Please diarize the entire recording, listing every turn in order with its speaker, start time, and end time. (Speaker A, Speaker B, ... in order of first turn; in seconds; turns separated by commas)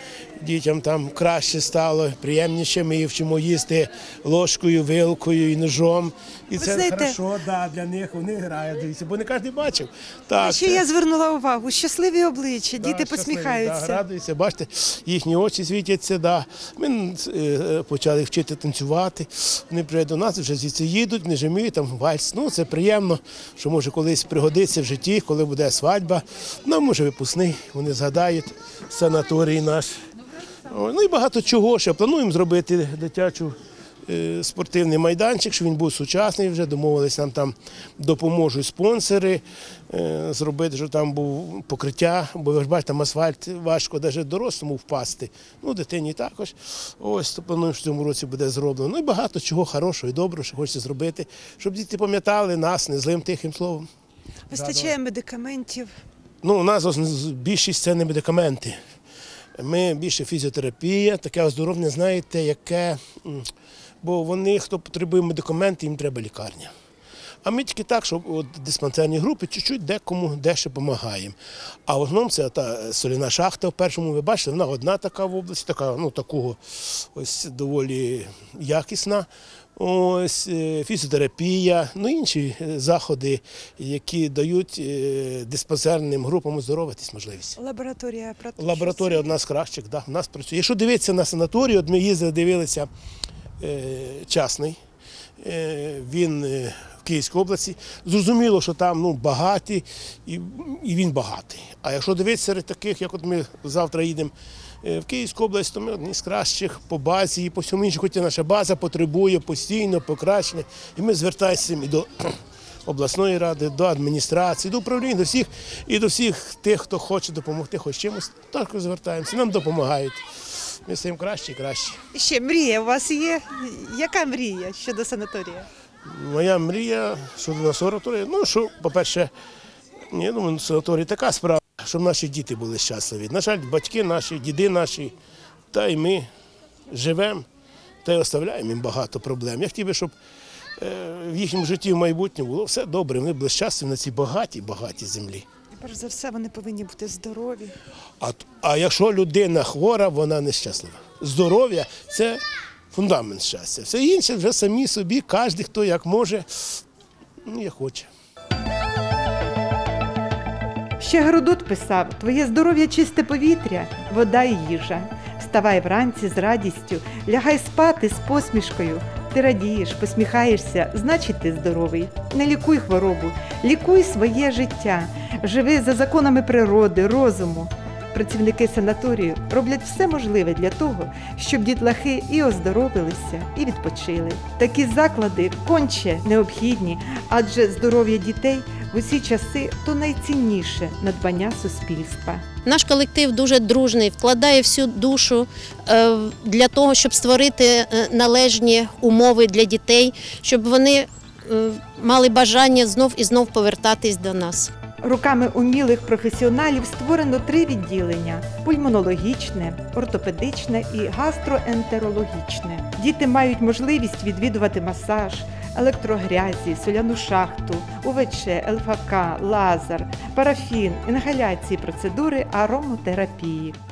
Speaker A: 0.4-10.8, Speaker B: 6.5-7.2, Speaker B: 10.4-14.0, Speaker A: 12.8-30.0, Speaker A: 30.7-33.5, Speaker A: 34.1-53.9, Speaker B: 54.5-55.9, Speaker A: 54.5-55.0, Speaker A: 56.4-58.8, Speaker A: 59.6-63.5, Speaker A: 64.0-66.7, Speaker A: 67.4-71.3, Speaker A: 71.9-87.6, Speaker B: 87.6-89.3, Speaker A: 88.6-92.9, Speaker A: 93.6-94.8, Speaker A: 95.4-112.3, Speaker A: 112.9-120.2, Speaker A: 120.9-122.0, Speaker B: 122.1-125.7, Speaker A: 126.1-129.3, Speaker A: 130.1-135.1, Speaker A: 135.7-136.3, Speaker A: 136.9-137.4, Speaker A: 138.0-140.1, Speaker A: 140.8-145.4, Speaker B: 145.8-147.8, Speaker A: 148.2-152.4, Speaker A: 152.9-156.8, Speaker A: 157.5-158.1, Speaker B: 161.0-192.4, Speaker C: 192.7-204.7, Speaker B: 205.0-223.8